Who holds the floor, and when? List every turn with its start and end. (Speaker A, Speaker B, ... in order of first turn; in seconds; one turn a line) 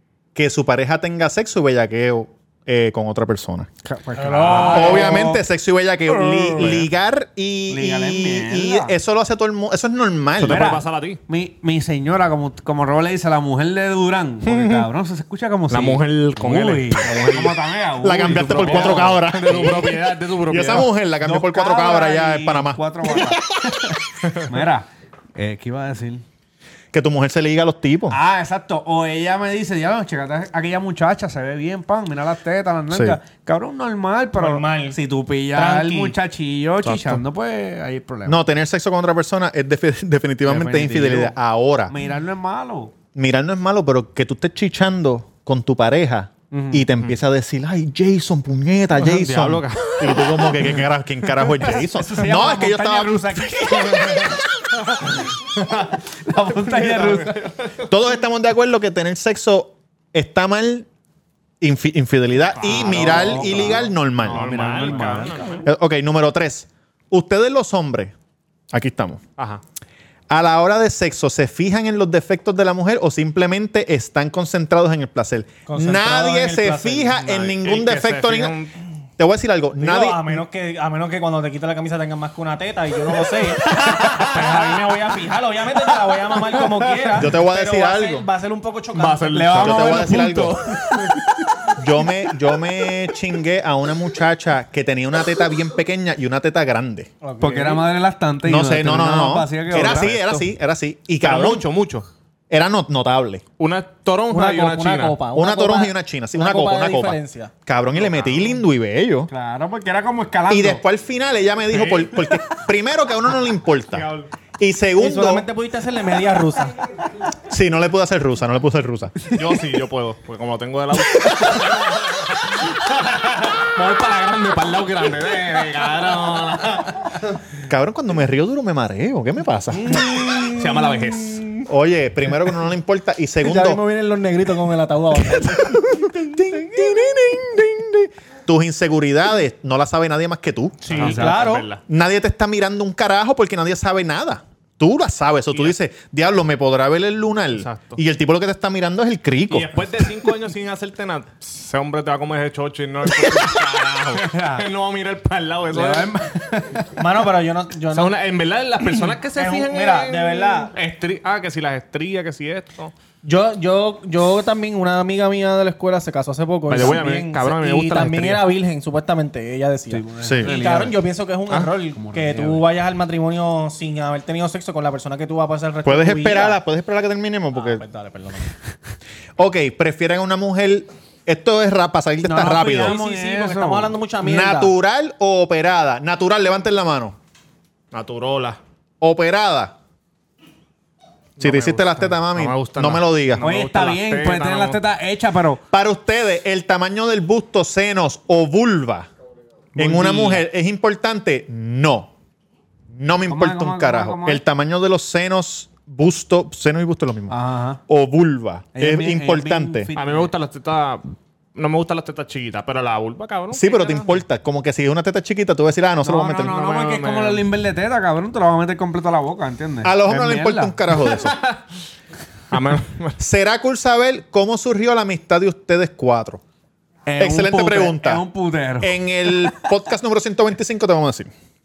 Speaker A: 0.3-3.7
Speaker B: 3.9-5.4
Speaker C: 4.2-5.2
Speaker D: 4.5-5.2
Speaker A: 4.7-10.8
Speaker B: 6.2-6.9
Speaker D: 6.6-6.9
Speaker B: 7.7-8.9
Speaker D: 10.4-11.2
Speaker B: 10.4-19.2
Speaker D: 14.5-14.8
Speaker D: 15.7-17.6
Speaker A: 18.0-22.8
Speaker D: 18.3-20.9
Speaker B: 20.7-26.2
Speaker A: 26.9-28.2
Speaker B: 28.1-38.4
Speaker A: 32.9-33.2
Speaker C: 34.4-35.0
Speaker C: 35.5-36.1
Speaker A: 36.9-37.2
Speaker A: 38.3-42.0
Speaker B: 40.5-41.4
Speaker B: 41.9-42.9
Speaker A: 43.1-54.8
Speaker B: 46.5-46.9
Speaker D: 49.0-50.6
Speaker B: 51.6-54.4
Speaker D: 55.6-55.9
Speaker B: 56.3-57.5
Speaker D: 56.7-57.8
Speaker A: 57.9-60.9
Speaker A: 61.6-64.9
Speaker B: 62.6-65.6
Speaker D: 62.6-63.7
Speaker D: 64.2-65.7
Speaker A: 65.6-68.1
Speaker A: 68.7-69.2
Speaker D: 69.4-69.6
Speaker A: 70.3-78.6
Speaker C: 75.7-77.2
Speaker D: 77.2-78.8
Speaker A: 79.2-80.3
Speaker C: 79.8-89.6
Speaker D: 84.3-84.6
Speaker B: 86.5-87.1
Speaker A: 87.2-88.3
Speaker D: 89.0-90.0
Speaker B: 89.3-91.2
Speaker A: 89.5-90.6
Speaker A: 91.8-97.1
Speaker C: 97.2-97.9
Speaker B: 97.4-100.5
Speaker A: 98.4-101.7
Speaker D: 101.2-102.1
Speaker A: 102.5-103.5
Speaker D: 103.6-105.2
Speaker C: 104.3-107.5
Speaker A: 105.3-109.3
Speaker D: 107.9-108.5
Speaker B: 109.3-110.8
Speaker A: 110.5-115.5
Speaker D: 111.7-112.2
Speaker D: 113.9-114.3
Speaker C: 115.0-116.8
Speaker A: 117.5-119.2
Speaker D: 119.3-127.2
Speaker A: 127.7-130.1
Speaker C: 129.7-131.7
Speaker D: 130.5-131.6
Speaker A: 131.7-133.8
Speaker C: 133.4-137.1
Speaker A: 135.2-141.1
Speaker C: 140.8-141.7
Speaker D: 140.9-141.8
Speaker B: 141.0-141.4
Speaker A: 141.9-149.9
Speaker D: 147.6-148.0
Speaker D: 149.5-156.2
Speaker B: 154.1-154.7
Speaker B: 155.7-156.9
Speaker C: 156.9-158.2
Speaker D: 157.9-162.9
Speaker C: 159.3-160.7
Speaker C: 163.2-176.6
Speaker D: 166.7-168.5
Speaker B: 169.9-171.0
Speaker A: 170.2-170.5
Speaker B: 172.0-172.7
Speaker A: 175.8-177.8
Speaker C: 177.5-178.5
Speaker A: 179.4-182.9
Speaker C: 182.2-184.7
Speaker B: 182.5-184.0
Speaker A: 184.2-187.2
Speaker D: 187.9-188.6
Speaker A: 189.0-189.8
Speaker D: 191.4-194.8
Speaker A: 191.4-193.4
Speaker B: 193.4-195.6
Speaker A: 195.7-199.1
Speaker B: 199.8-200.5
Speaker A: 199.8-202.1
Speaker A: 202.9-209.9
Speaker B: 203.3-204.4
Speaker B: 207.3-207.8
Speaker B: 208.8-210.3
Speaker D: 209.9-214.1
Speaker A: 213.5-216.6
Speaker B: 216.0-221.4
Speaker D: 216.4-217.4
Speaker A: 219.8-221.4
Speaker D: 222.5-223.2
Speaker A: 223.2-226.4
Speaker B: 227.1-229.6
Speaker A: 227.2-228.2
Speaker A: 228.8-231.3